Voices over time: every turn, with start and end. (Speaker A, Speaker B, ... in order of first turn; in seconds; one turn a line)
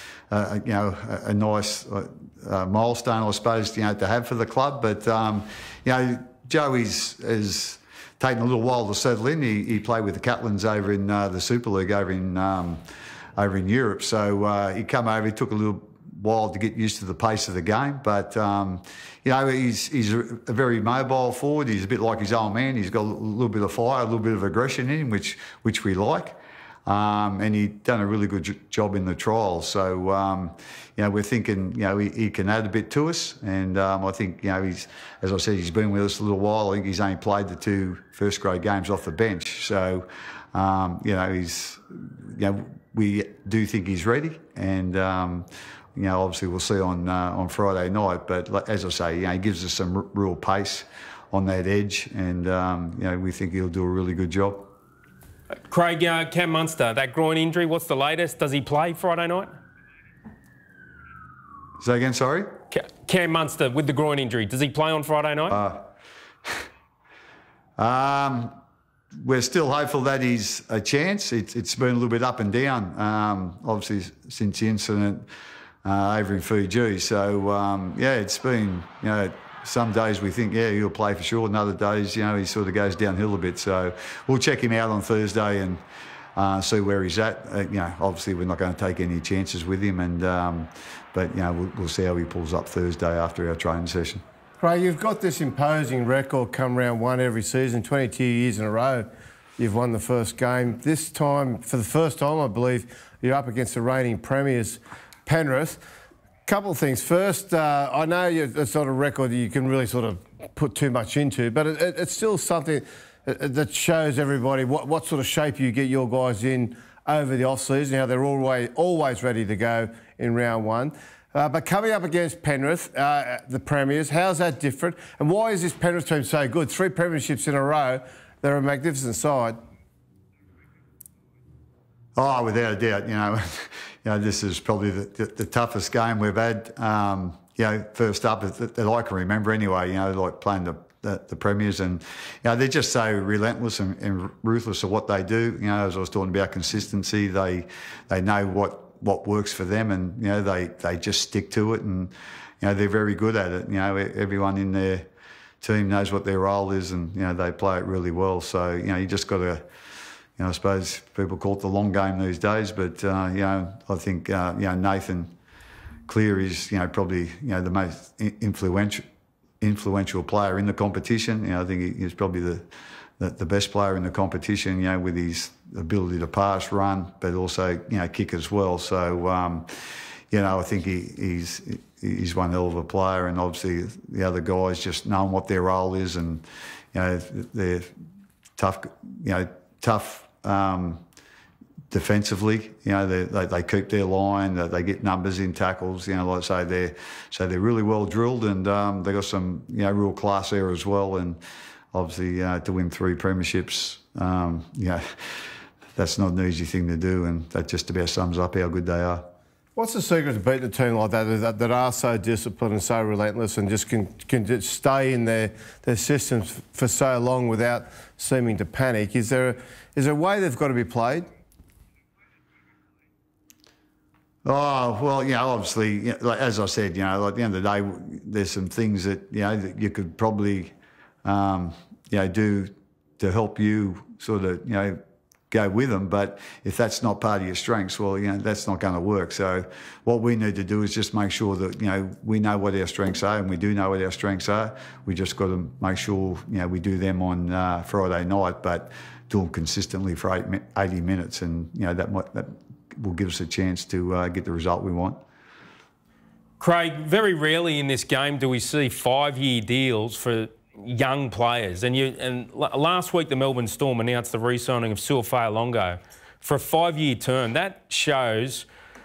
Speaker A: 0.3-12.8
Speaker A: 13.4-54.7
Speaker B: 55.6-59.5
Speaker A: 61.8-62.5
Speaker B: 62.7-65.6
Speaker A: 65.5-65.9
Speaker A: 67.8-68.6
Speaker A: 69.2-75.2
Speaker A: 75.8-85.8
Speaker A: 86.3-94.2
Speaker C: 94.6-105.8
Speaker C: 106.5-129.6
Speaker A: 132.2-155.1
Speaker A: 155.6-159.6
Speaker A: 160.4-165.3
Speaker A: 166.1-169.0
Speaker A: 169.6-172.6
Speaker A: 173.2-179.7
Speaker A: 180.3-187.9
Speaker A: 188.6-191.0
Speaker A: 191.9-201.4
Speaker A: 201.9-205.0
Speaker A: 205.9-209.2
Speaker C: 209.7-221.3
Speaker A: 224.4-235.0
Speaker A: 235.5-255.2
Speaker B: 256.6-268.7